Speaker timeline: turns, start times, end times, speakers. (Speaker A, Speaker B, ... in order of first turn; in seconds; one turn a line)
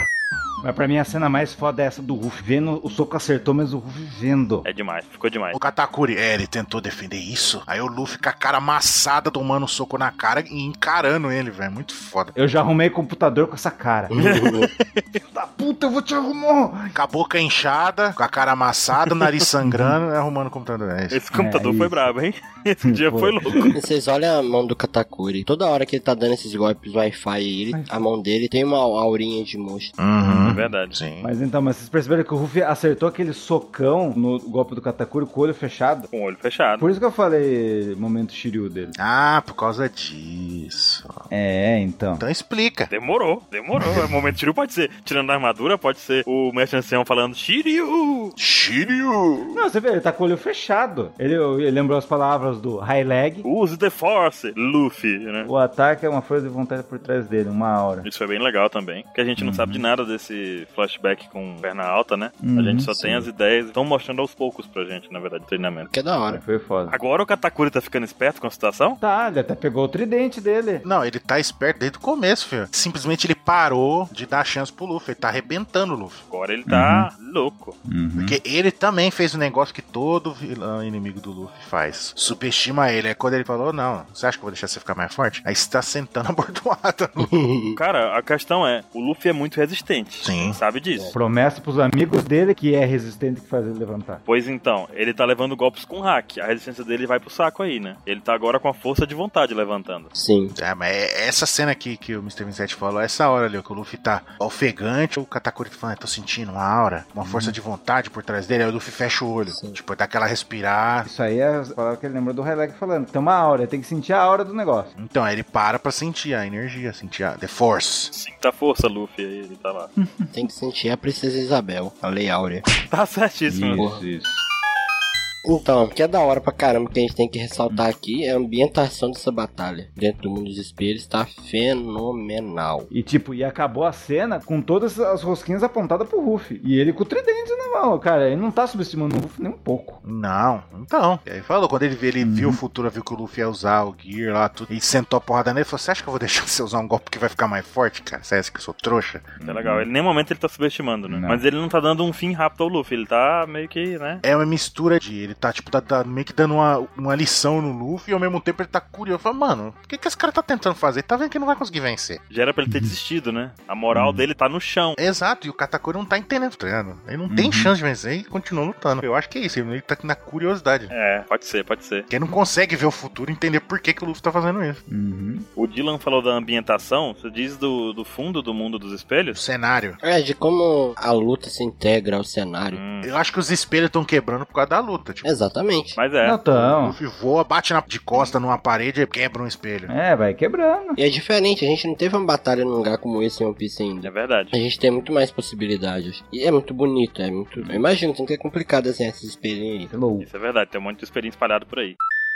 Speaker A: 0.6-4.7
Speaker B: 4.6-5.6
Speaker C: 5.5-12.3
Speaker A: 12.3-14.1
Speaker D: 14.1-14.7
Speaker B: 14.2-15.2
Speaker A: 15.2-16.9
Speaker C: 16.9-21.2
Speaker A: 19.6-20.0
Speaker B: 21.1-23.8
Speaker A: 21.3-22.0
Speaker A: 22.8-23.8
Speaker D: 23.7-29.9
Speaker A: 27.7-28.0
Speaker C: 30.0-31.3
Speaker A: 30.2-30.7
Speaker B: 30.4-31.0
Speaker A: 31.2-36.1
Speaker B: 36.1-36.9
Speaker A: 36.8-38.9
Speaker C: 39.0-41.2
Speaker A: 41.3-42.2
Speaker C: 42.2-42.9
Speaker B: 42.9-48.3
Speaker C: 48.4-49.6
Speaker A: 49.5-53.5
Speaker B: 53.4-55.5
Speaker A: 55.4-58.1
Speaker B: 58.0-65.9
Speaker A: 59.4-59.8
Speaker A: 62.4-63.3
Speaker D: 65.9-66.4
Speaker A: 66.3-67.0
Speaker B: 66.9-69.0
Speaker A: 69.0-70.8
Speaker C: 70.8-76.2
Speaker B: 76.3-77.8
Speaker A: 76.7-77.1
Speaker A: 77.8-78.4
Speaker C: 78.2-87.3
Speaker D: 87.2-87.8
Speaker B: 87.8-91.1
Speaker C: 90.2-90.6
Speaker A: 91.1-94.2
Speaker B: 94.2-100.1
Speaker D: 100.1-100.5
Speaker C: 100.5-111.1
Speaker A: 107.2-107.5
Speaker D: 109.5-109.8
Speaker A: 111.0-114.9
Speaker C: 115.0-118.1
Speaker B: 118.1-119.9
Speaker A: 120.0-120.3
Speaker D: 120.3-122.7
Speaker B: 122.8-123.9
Speaker A: 123.5-124.4
Speaker D: 123.8-124.0
Speaker D: 125.4-132.9
Speaker A: 132.9-140.0
Speaker C: 140.0-149.3
Speaker A: 142.2-142.6
Speaker A: 149.4-149.9
Speaker B: 149.4-154.2
Speaker A: 151.1-151.4
Speaker C: 154.2-162.2
Speaker B: 162.3-165.0
Speaker A: 163.9-164.2
Speaker C: 165.0-170.9
Speaker A: 167.3-167.7
Speaker B: 170.9-172.1
Speaker C: 172.1-174.8
Speaker A: 174.9-175.4
Speaker B: 175.6-179.4
Speaker C: 179.3-180.0
Speaker D: 180.0-182.8
Speaker B: 182.7-183.1
Speaker C: 183.0-185.3
Speaker D: 185.2-186.0
Speaker B: 186.0-186.4
Speaker A: 186.2-187.0
Speaker C: 186.5-189.9
Speaker A: 189.9-191.0
Speaker D: 191.0-199.9
Speaker B: 194.0-194.5
Speaker A: 199.9-200.3
Speaker B: 200.2-201.9